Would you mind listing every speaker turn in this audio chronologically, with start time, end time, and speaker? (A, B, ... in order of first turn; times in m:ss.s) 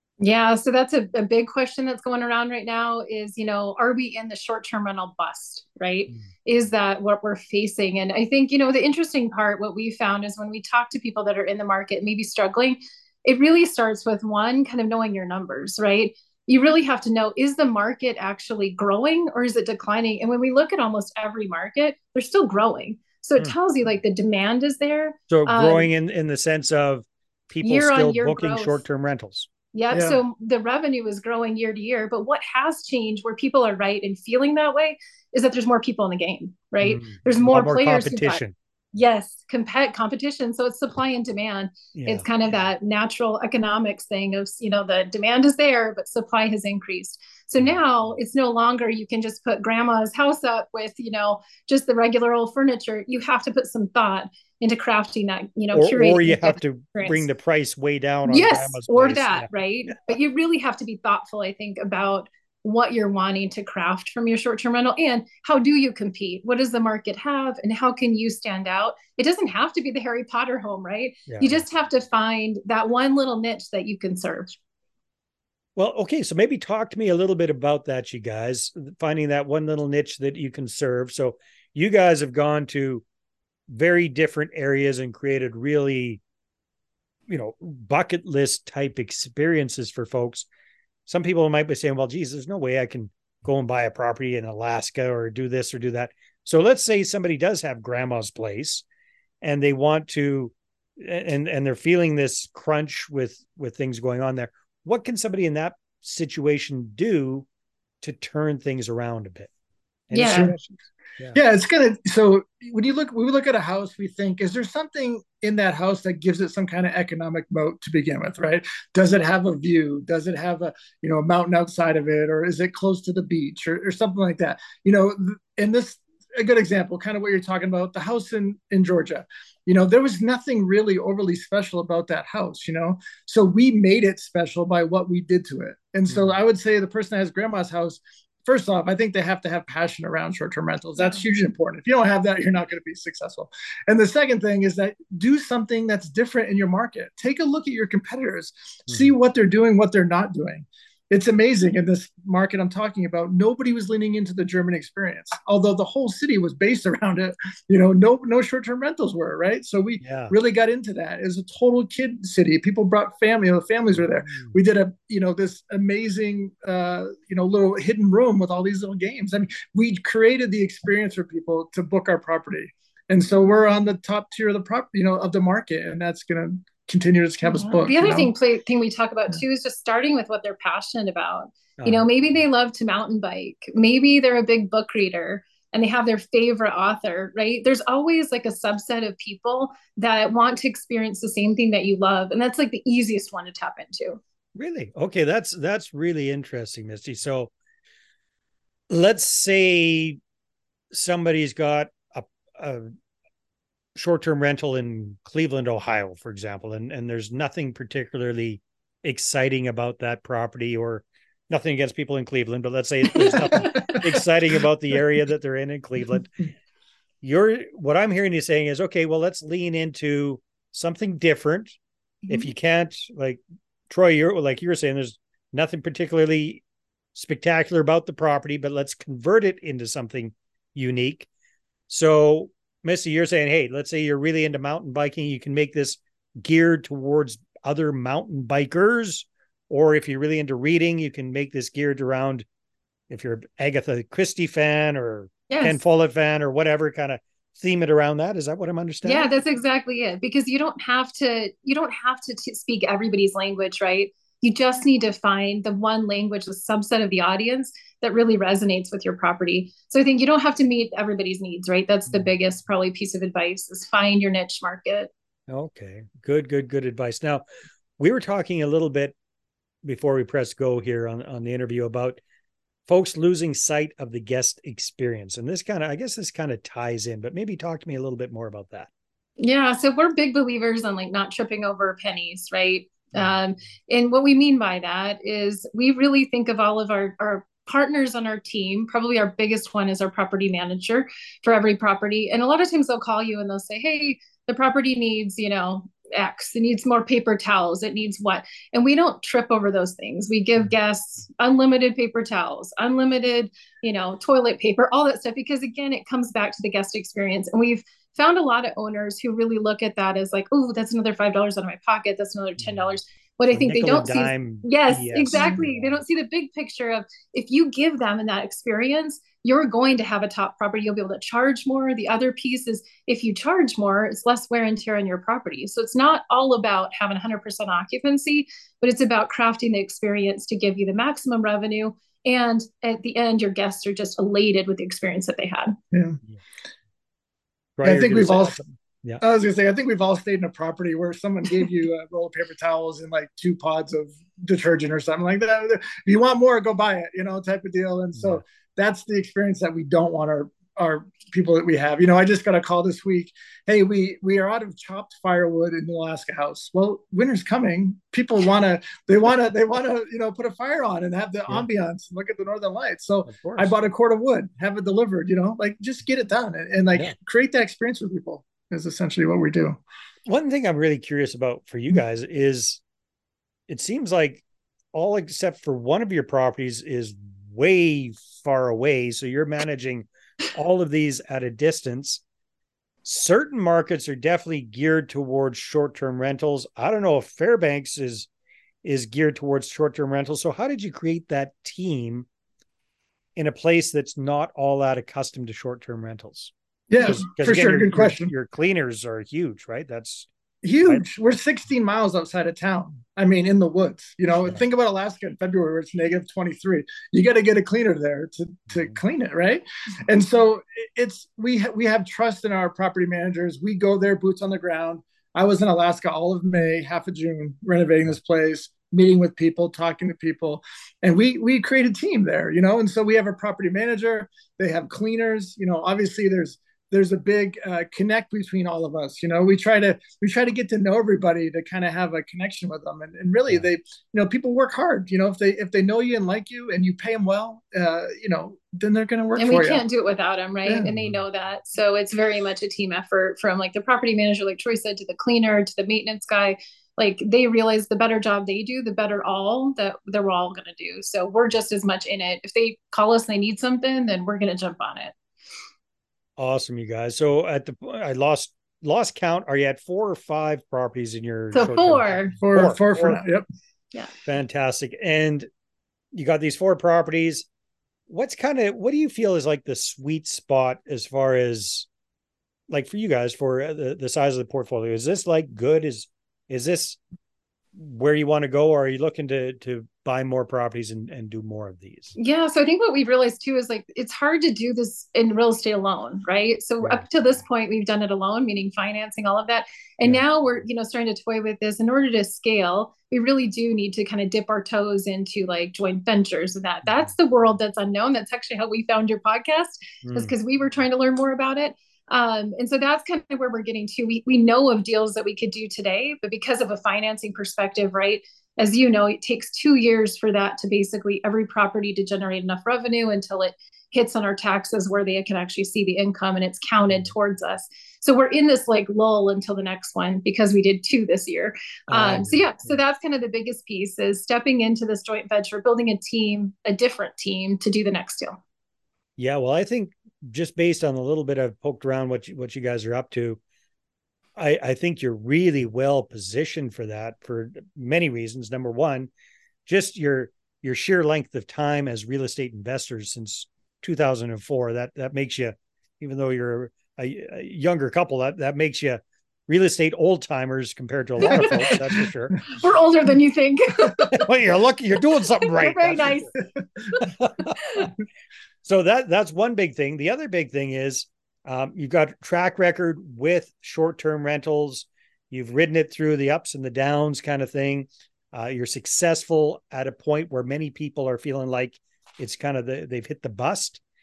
0:00.2-0:25.9 A
0:25.3-0:29.5 B
0:27.6-0:28.8 A
0:29.7-0:38.4 A
0:29.9-0:30.2 C
0:36.8-0:38.6 B
0:38.9-0:57.3 A
0:42.0-0:42.3 B
0:55.7-0:59.9 B
0:58.3-1:14.6 A
1:11.3-1:11.6 B
1:15.8-1:23.0 B
1:23.7-1:26.2 B
1:27.3-1:30.5 B
1:31.1-1:38.8 B
1:39.4-1:47.5 B
1:48.0-1:49.5 B
1:50.1-1:50.6 B
1:50.1-1:50.6 A
1:50.3-1:50.7 C
1:51.3-2:58.3 C
2:16.1-2:16.4 B
2:40.0-2:40.3 B
2:44.0-2:44.6 B
2:57.4-3:14.2 A
3:01.8-3:02.1 B
3:14.6-3:17.5 B
3:18.9-3:20.2 B
3:20.9-3:22.9 B
3:24.0-3:36.3 B
3:33.6-3:34.0 A
3:37.2-3:41.8 B
3:42.3-3:46.6 B
3:47.1-3:51.3 B
3:51.9-4:02.5 B
4:03.1-4:09.3 B
4:05.5-4:05.8 A
4:09.0-4:25.1 A
4:25.5-4:27.4 B
4:28.0-4:29.2 B
4:29.8-4:32.2 B
4:32.9-4:38.9 B
4:39.4-5:35.8 A
5:12.6-5:13.0 B
5:13.5-5:16.0 B
5:15.3-5:15.6 C
5:35.9-5:36.2 C
5:37.8-5:39.2 B
5:37.8-5:38.6 C
5:39.2-6:09.8 C
5:48.2-5:48.4 B
6:03.3-6:03.9 B
6:10.3-6:12.8 B
6:13.7-6:22.2 B
6:23.0-6:28.3 B
6:28.8-6:32.3 B
6:33.4-6:40.3 B
6:36.9-6:38.3 C
6:40.6-7:19.8 C
7:19.4-7:35.2 A
7:20.7-7:20.9 C
7:36.4-7:43.2 B
7:41.5-7:42.3 A
7:42.4-7:43.4 C
7:44.2-7:45.5 B
7:46.1-7:47.5 B
7:48.1-7:51.9 B
7:52.7-7:57.0 B
7:57.8-8:02.1 B
8:02.2-8:48.4 A
8:20.0-8:20.3 B
8:41.9-8:42.8 B
8:49.2-8:53.4 B
8:54.4-8:59.1 B
8:59.7-9:12.5 B
9:11.3-9:11.7 A
9:11.5-9:11.8 C
9:12.4-9:14.3 A
9:14.1-9:16.3 B
9:15.4-9:16.4 A
9:17.0-9:17.9 A
9:17.0-9:17.9 B
9:18.6-9:33.8 B